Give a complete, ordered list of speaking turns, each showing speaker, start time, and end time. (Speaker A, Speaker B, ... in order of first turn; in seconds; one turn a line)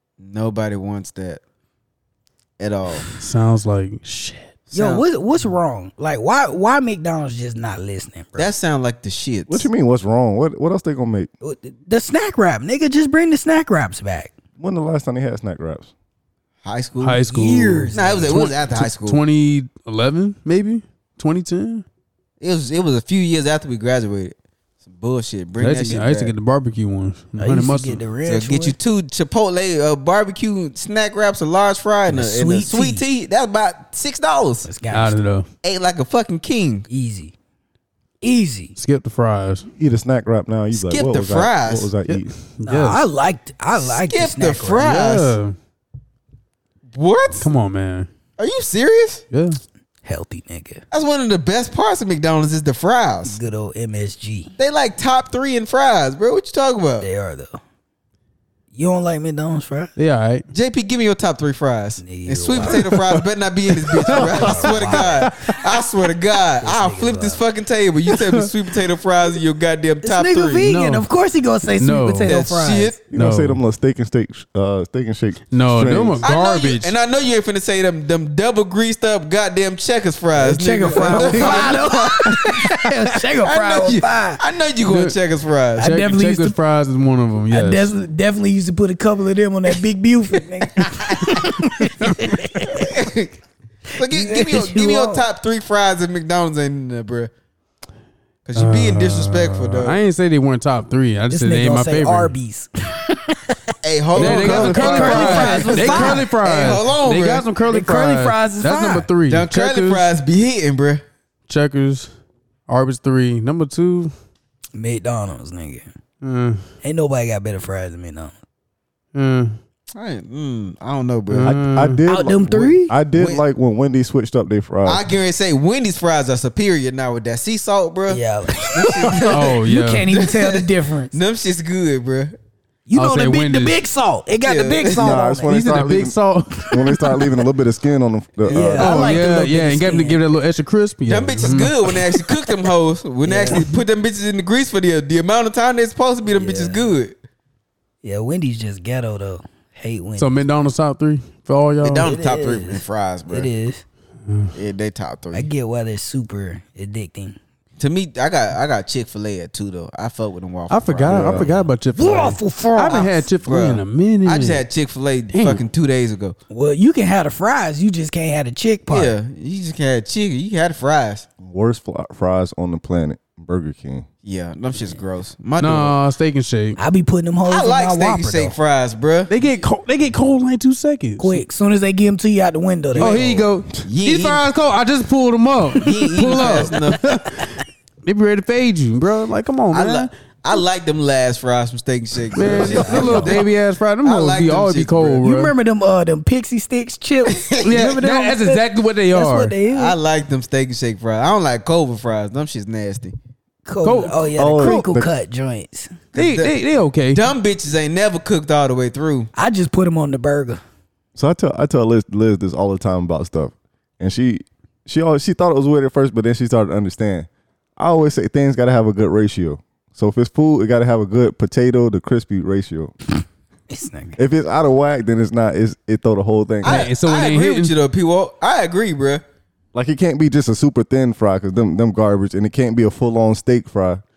Speaker A: 0.2-1.4
Speaker A: 2.6-3.1
Speaker B: 3.2-4.5
Speaker A: 4.7-5.0
Speaker C: 4.7-8.5
Speaker A: 8.4-9.7
Speaker D: 9.5-11.3
Speaker C: 11.4-14.3
Speaker D: 14.6-15.9
Speaker A: 16.6-17.3
Speaker B: 17.0-21.9
Speaker C: 17.3-18.4
Speaker A: 17.9-19.2
Speaker A: 22.4-26.3
Speaker B: 25.6-28.0
Speaker C: 27.4-28.8
Speaker A: 28.3-34.7
Speaker C: 32.1-33.0
Speaker C: 34.6-35.2
Speaker B: 34.9-35.5
Speaker A: 35.6-36.9
Speaker C: 36.9-37.3
Speaker C: 38.2-38.8
Speaker B: 38.8-39.7
Speaker D: 39.8-42.3
Speaker A: 40.7-41.9
Speaker B: 42.1-43.1
Speaker C: 42.6-44.9
Speaker A: 43.9-45.4
Speaker B: 44.8-45.6
Speaker A: 46.9-47.5
Speaker B: 47.4-48.1
Speaker A: 48.4-49.2
Speaker B: 49.3-49.6
Speaker C: 50.0-50.8
Speaker A: 50.9-53.4
Speaker C: 53.3-54.5
Speaker A: 54.6-57.1
Speaker C: 57.0-57.6
Speaker C: 58.8-59.9
Speaker B: 60.0-60.5
Speaker A: 60.5-70.7
Speaker C: 62.0-62.9
Speaker C: 64.1-65.3
Speaker D: 64.1-64.7
Speaker C: 66.6-67.4
Speaker C: 70.0-73.0
Speaker B: 70.6-71.1
Speaker B: 71.8-72.3
Speaker A: 72.3-73.0
Speaker D: 73.1-76.2
Speaker B: 73.1-73.6
Speaker B: 75.5-77.0
Speaker A: 76.2-85.9
Speaker C: 80.4-84.4
Speaker D: 81.1-81.7
Speaker B: 84.8-85.2
Speaker C: 85.8-86.6
Speaker B: 85.8-87.9
Speaker C: 87.5-92.9
Speaker A: 92.7-93.4
Speaker C: 93.9-95.2
Speaker A: 94.0-97.3
Speaker A: 98.5-100.0
Speaker B: 98.5-102.3
Speaker C: 101.3-103.5
Speaker A: 103.8-107.5
Speaker B: 104.1-110.1
Speaker C: 104.2-106.7
Speaker C: 107.7-109.1
Speaker A: 109.3-111.0
Speaker B: 111.5-112.1
Speaker B: 112.7-114.1
Speaker C: 114.8-115.9
Speaker B: 116.2-116.6
Speaker C: 116.8-118.3
Speaker B: 119.1-119.6
Speaker A: 119.9-121.5
Speaker B: 121.3-122.0
Speaker D: 121.4-125.0
Speaker C: 122.1-122.9
Speaker A: 123.1-123.4
Speaker A: 124.8-132.4
Speaker C: 128.1-131.2
Speaker B: 129.3-130.1
Speaker C: 132.9-135.5
Speaker B: 132.9-133.8
Speaker A: 134.4-135.2
Speaker D: 134.9-139.1
Speaker B: 135.5-136.8
Speaker C: 138.5-140.2
Speaker B: 138.8-141.7
Speaker A: 141.1-147.2
Speaker C: 143.2-143.7
Speaker C: 146.3-146.8
Speaker C: 148.0-150.4
Speaker B: 150.2-152.1
Speaker A: 151.8-153.5
Speaker C: 152.0-153.8
Speaker B: 154.3-154.5
Speaker A: 154.5-155.5
Speaker C: 155.3-157.4
Speaker A: 157.8-161.7
Speaker B: 160.7-164.6
Speaker D: 161.1-161.5
Speaker C: 161.9-163.1
Speaker A: 162.9-166.4
Speaker B: 165.3-165.6
Speaker C: 166.5-169.1
Speaker A: 168.9-171.3
Speaker D: 171.4-174.1
Speaker A: 174.2-176.0
Speaker B: 175.6-176.8
Speaker C: 176.8-178.6
Speaker A: 177.4-179.3
Speaker B: 179.3-181.4
Speaker C: 181.2-183.4
Speaker A: 182.9-184.5
Speaker B: 183.0-190.1
Speaker A: 185.7-187.1
Speaker A: 189.7-195.2
Speaker B: 192.3-195.5
Speaker C: 192.5-193.3
Speaker D: 192.9-193.3
Speaker C: 195.2-199.9
Speaker A: 197.3-197.9
Speaker B: 197.6-199.6
Speaker A: 199.7-203.2
Speaker C: 203.7-205.9
Speaker B: 203.8-204.8
Speaker D: 204.4-205.1
Speaker A: 206.1-206.6
Speaker B: 206.2-207.2
Speaker A: 207.1-209.3
Speaker C: 209.4-210.6
Speaker D: 211.2-222.9
Speaker C: 223.7-224.2
Speaker D: 224.2-226.9
Speaker A: 226.6-229.2
Speaker B: 226.6-227.7
Speaker D: 229.7-234.0